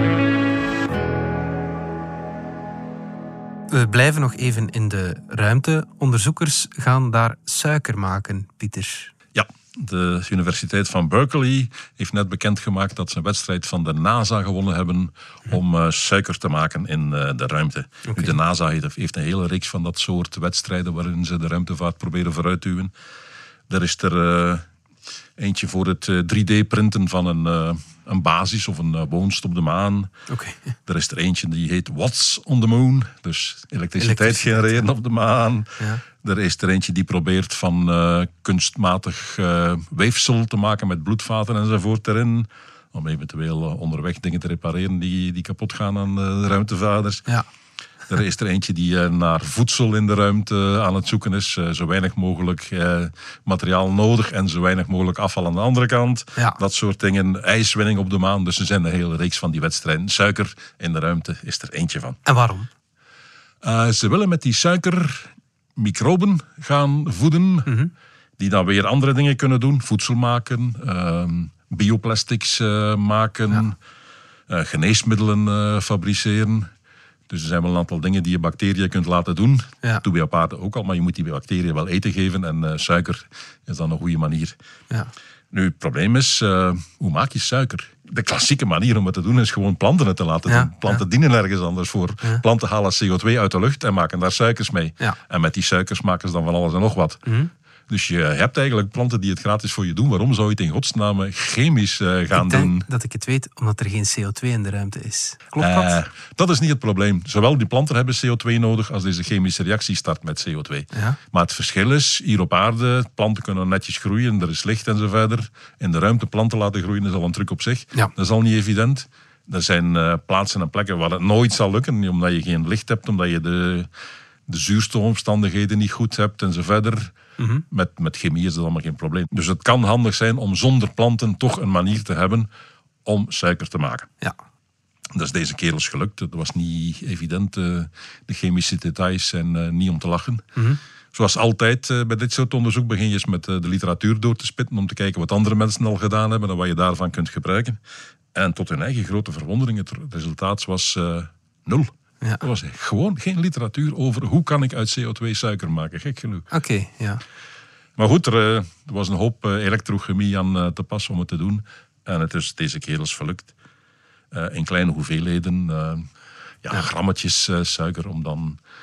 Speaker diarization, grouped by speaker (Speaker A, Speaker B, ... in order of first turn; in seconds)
Speaker A: 3.7-9.1, 18.1-18.4, 30.3-30.7, 34.0-34.9, 62.2-62.7, 67.7-67.9, 90.5-91.0, 97.2-97.5, 102.3-106.0, 110.9-111.2, 156.5-157.2
Speaker B: 9.3-22.9, 23.7-24.6, 25.4-30.1, 30.9-47.3, 48.1-62.2, 63.6-67.7, 68.4-73.8, 74.5-76.7, 77.3-84.5, 85.5-97.2, 97.9-102.9, 105.6-123.9, 124.5-127.2, 127.7-132.5, 133.1-134.1, 135.1-140.4, 141.1-147.8, 148.3-156.5, 158.0-163.5, 164.3-166.1, 166.6-168.6